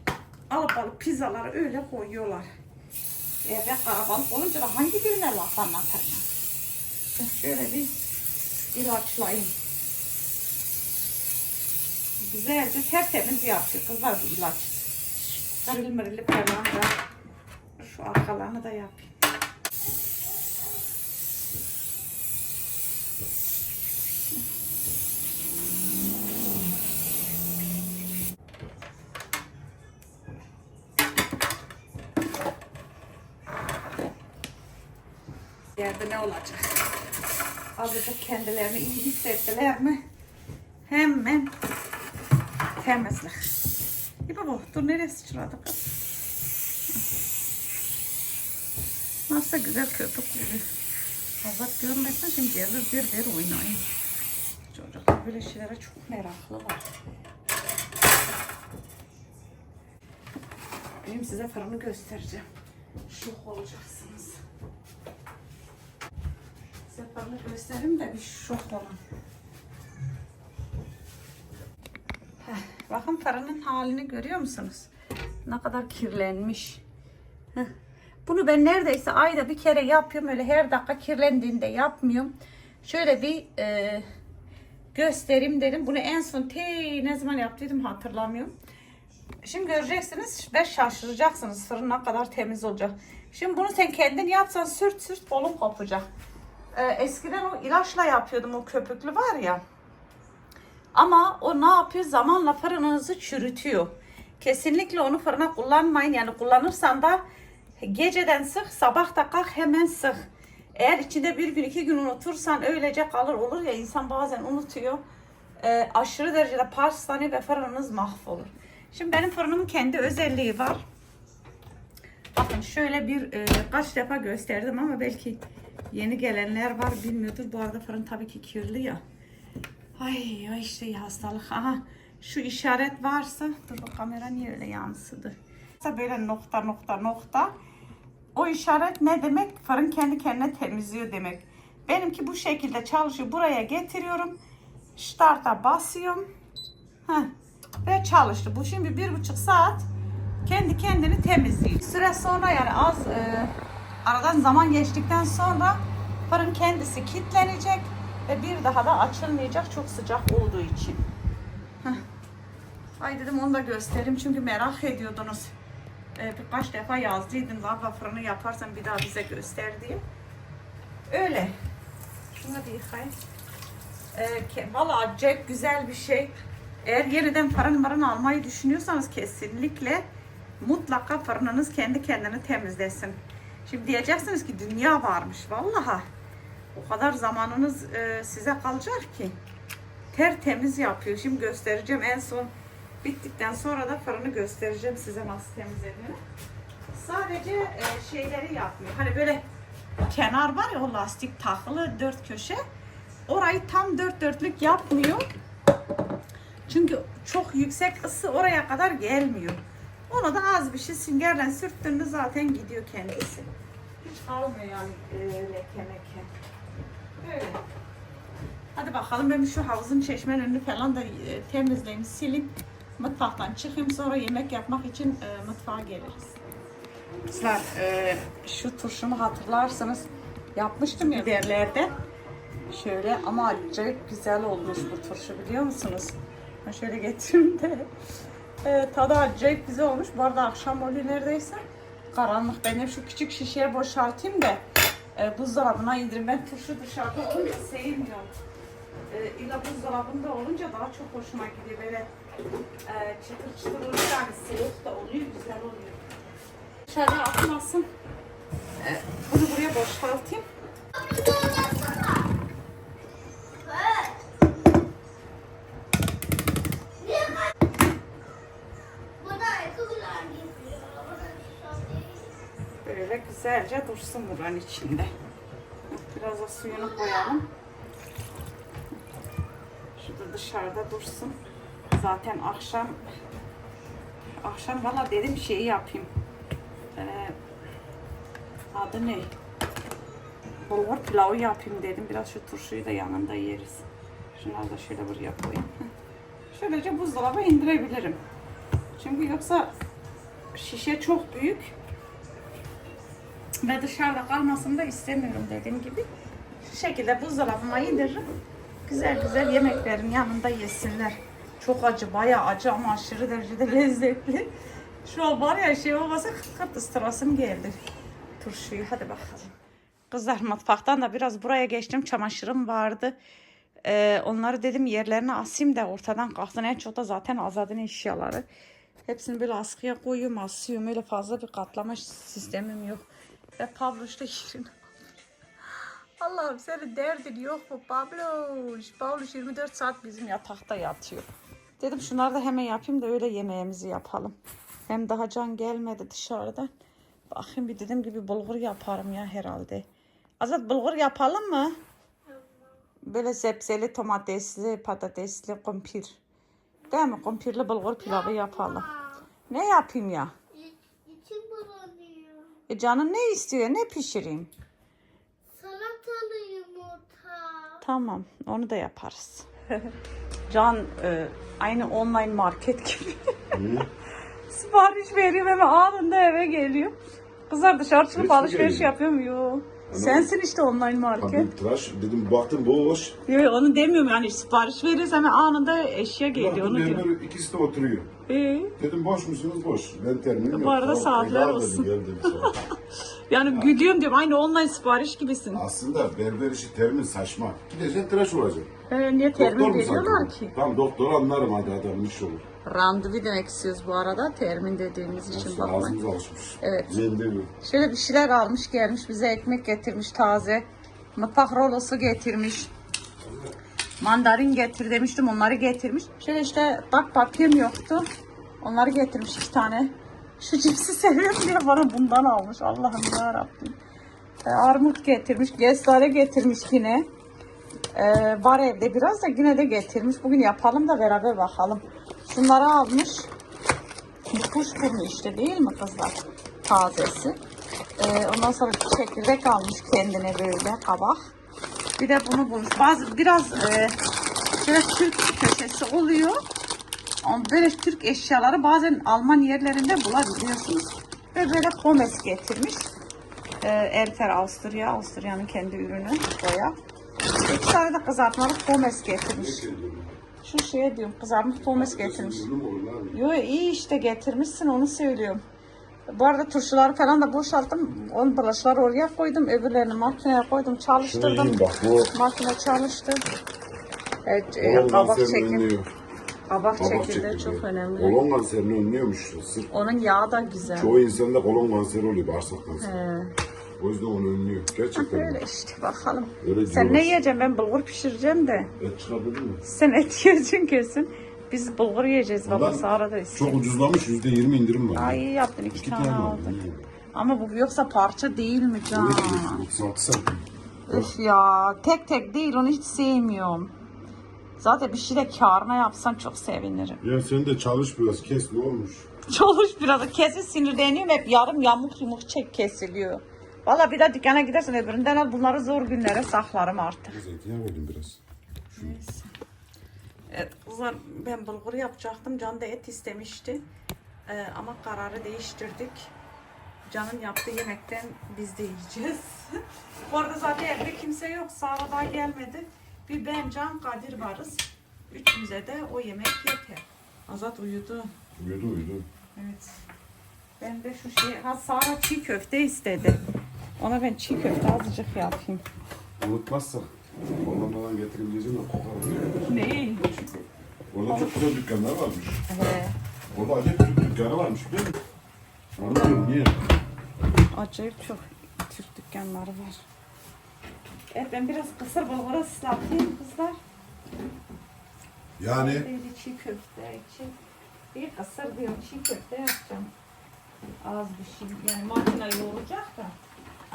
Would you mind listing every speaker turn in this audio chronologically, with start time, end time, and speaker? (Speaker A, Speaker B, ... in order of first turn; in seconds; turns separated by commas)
Speaker A: 0.5-2.5, Speaker A: 3.4-6.2, Speaker A: 7.2-7.9, Speaker A: 8.7-9.5, Speaker A: 12.2-14.7, Speaker A: 15.6-16.9, Speaker A: 17.8-19.1, Speaker A: 35.8-36.8, Speaker A: 37.8-40.0, Speaker A: 40.9-41.5, Speaker A: 42.8-43.5, Speaker A: 44.3-45.8, Speaker A: 49.3-50.7, Speaker A: 51.4-53.8, Speaker A: 54.7-56.8, Speaker A: 61.0-62.5, Speaker A: 63.1-64.4, Speaker A: 66.9-69.0, Speaker A: 72.4-74.9, Speaker A: 75.5-76.8, Speaker A: 78.3-84.1, Speaker A: 84.9-88.5, Speaker A: 89.4-96.0, Speaker A: 96.8-99.6, Speaker A: 100.9-107.2, Speaker A: 107.8-110.2, Speaker A: 110.8-115.0, Speaker A: 115.6-120.8, Speaker A: 122.3-129.0, Speaker A: 130.0-137.5, Speaker A: 138.3-144.4, Speaker A: 145.0-146.3, Speaker A: 147.8-149.9, Speaker A: 150.4-153.5, Speaker A: 154.1-161.0, Speaker A: 163.0-165.5, Speaker A: 166.2-170.0, Speaker A: 171.1-171.6, Speaker A: 172.4-173.2, Speaker A: 174.1-180.0, Speaker A: 180.6-186.1, Speaker A: 186.7-189.4, Speaker A: 190.1-192.5, Speaker A: 193.0-196.2, Speaker A: 196.9-199.4, Speaker A: 200.1-202.6, Speaker A: 203.3-205.3, Speaker A: 206.7-213.5, Speaker A: 214.0-216.3, Speaker A: 217.2-217.6, Speaker A: 218.8-226.4, Speaker A: 227.3-231.9, Speaker A: 232.7-237.9, Speaker A: 238.6-244.6, Speaker A: 245.2-248.3, Speaker A: 249.1-252.1, Speaker A: 252.9-256.0, Speaker A: 256.9-257.9, Speaker A: 258.8-260.4, Speaker B: 261.0-262.2, Speaker B: 263.6-264.2, Speaker B: 267.0-267.4, Speaker B: 269.2-272.3, Speaker A: 272.8-275.1, Speaker A: 275.9-277.5, Speaker B: 276.7-277.4, Speaker A: 280.0-281.4, Speaker A: 281.9-283.0, Speaker A: 284.4-286.1, Speaker A: 286.9-287.4, Speaker A: 288.7-289.3, Speaker A: 290.7-293.9, Speaker A: 294.4-295.9, Speaker A: 296.5-298.2, Speaker A: 299.0-299.7, Speaker A: 300.5-301.7, Speaker A: 303.6-306.1, Speaker A: 306.6-308.2, Speaker A: 308.9-314.5, Speaker A: 315.1-317.8, Speaker A: 318.4-319.5, Speaker A: 320.1-323.2, Speaker A: 323.8-328.5, Speaker A: 329.1-333.1, Speaker A: 333.6-334.7, Speaker A: 336.2-344.4, Speaker A: 344.9-346.7, Speaker A: 347.3-349.9, Speaker A: 350.4-351.8, Speaker A: 353.0-356.2, Speaker A: 356.9-358.9, Speaker B: 358.0-359.2, Speaker A: 359.5-360.3, Speaker B: 360.5-362.5, Speaker A: 362.7-364.5, Speaker B: 365.5-367.8, Speaker A: 367.8-369.9, Speaker A: 370.5-373.4, Speaker C: 373.5-373.9, Speaker A: 374.5-376.9, Speaker A: 377.5-381.5, Speaker C: 378.1-378.9, Speaker C: 379.9-380.3, Speaker C: 381.2-383.2, Speaker A: 383.3-387.1, Speaker C: 386.3-388.1, Speaker A: 388.3-388.7, Speaker C: 388.8-392.6, Speaker A: 390.5-392.5, Speaker A: 393.3-395.6, Speaker C: 395.5-398.7, Speaker A: 398.9-400.5, Speaker C: 399.4-402.4, Speaker A: 402.6-406.0, Speaker C: 405.3-407.5, Speaker A: 406.6-406.9, Speaker A: 407.6-412.7, Speaker A: 414.0-418.1, Speaker A: 418.6-423.8, Speaker A: 424.4-427.1, Speaker A: 427.9-433.3, Speaker A: 434.3-437.4, Speaker A: 438.0-441.2, Speaker A: 442.0-444.0, Speaker A: 444.6-446.4, Speaker A: 447.2-452.9, Speaker A: 453.6-456.8, Speaker A: 457.3-459.7, Speaker C: 459.3-460.2, Speaker A: 460.4-462.5, Speaker C: 461.6-463.2, Speaker A: 463.1-465.4, Speaker A: 466.1-471.6, Speaker C: 471.0-472.1, Speaker A: 472.1-473.2, Speaker A: 474.3-475.7, Speaker C: 474.6-475.9, Speaker A: 476.5-478.2, Speaker C: 476.8-479.7, Speaker A: 479.7-481.0, Speaker C: 480.7-482.9, Speaker A: 482.8-483.3, Speaker C: 483.8-485.4, Speaker A: 485.0-488.7, Speaker C: 486.4-487.1, Speaker C: 488.8-489.6, Speaker A: 489.6-493.6, Speaker C: 492.5-495.2, Speaker A: 494.9-496.6, Speaker C: 495.7-496.9, Speaker A: 497.1-499.6, Speaker C: 498.9-501.1, Speaker A: 500.9-503.7, Speaker A: 504.6-507.0, Speaker C: 507.0-509.1, Speaker A: 509.3-517.2, Speaker C: 517.1-518.2, Speaker A: 518.7-519.3, Speaker A: 520.3-523.6, Speaker A: 524.3-526.1, Speaker A: 526.9-538.1, Speaker C: 538.4-539.1, Speaker A: 539.4-539.8, Speaker A: 540.6-543.2, Speaker A: 543.8-545.6, Speaker C: 546.2-549.5, Speaker A: 549.5-550.2, Speaker C: 550.9-552.4, Speaker A: 551.1-551.4, Speaker A: 552.5-553.0, Speaker C: 553.3-555.0, Speaker A: 555.8-556.2, Speaker C: 555.8-556.6, Speaker A: 557.5-559.8, Speaker A: 561.1-563.6, Speaker C: 565.4-565.9, Speaker A: 565.5-567.4, Speaker A: 567.9-569.9, Speaker A: 570.8-573.2